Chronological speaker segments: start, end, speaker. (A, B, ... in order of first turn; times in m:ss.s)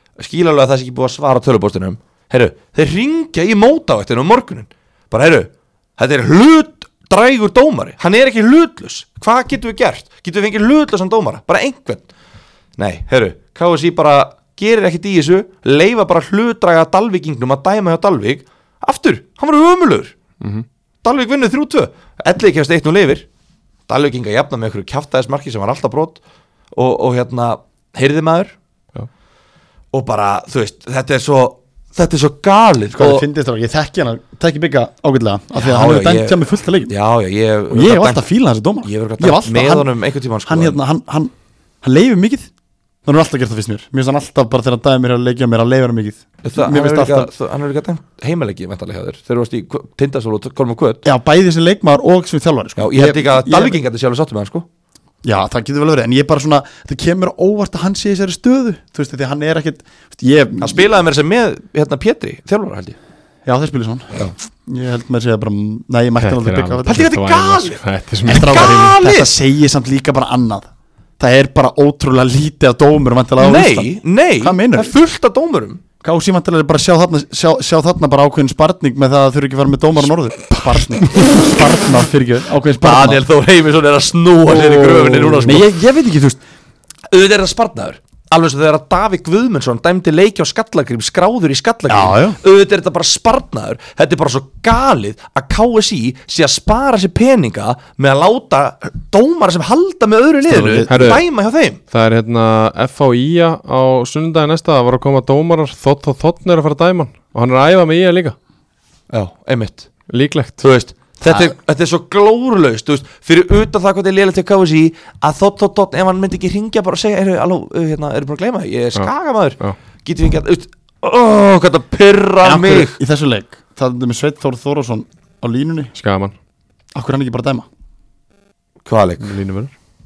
0:00.2-0:12.1 A
0:12.8-0:20.2 A
0:20.4-0:20.7 B
0:21.0-0:23.3 A
0:23.9-0:26.2 A
0:26.7-0:28.6 A
0:29.9-0:33.2 A
0:32.9-0:36.9 C
0:35.6-0:38.2 A
0:37.7-0:39.9 C
0:38.8-0:40.8 A
0:40.5-0:42.5 C
0:43.0-0:47.3 C
0:46.4-0:51.0 A
0:51.0-0:53.8 C
0:52.8-0:54.7 A
0:55.2-1:00.9 C
1:00.6-1:03.0 A
1:03.5-1:07.1 C
1:06.2-1:08.7 B
1:06.9-1:09.3 A
1:08.3-1:14.9 C
1:13.4-1:15.8 A
1:16.0-1:23.2 C
1:22.8-1:25.7 A
1:24.7-1:26.4 C
1:27.1-1:41.8 A
1:31.9-1:32.4 C
1:40.4-1:41.2 C
1:40.9-1:41.2 B
1:41.9-1:48.4 B
1:49.1-1:49.9 A
1:50.1-1:50.6 B
1:50.6-2:03.0 A
2:02.4-2:05.9 C
2:06.0-2:06.4 B
2:07.0-2:07.7 C
2:08.8-2:09.4 A
2:09.2-2:09.7 B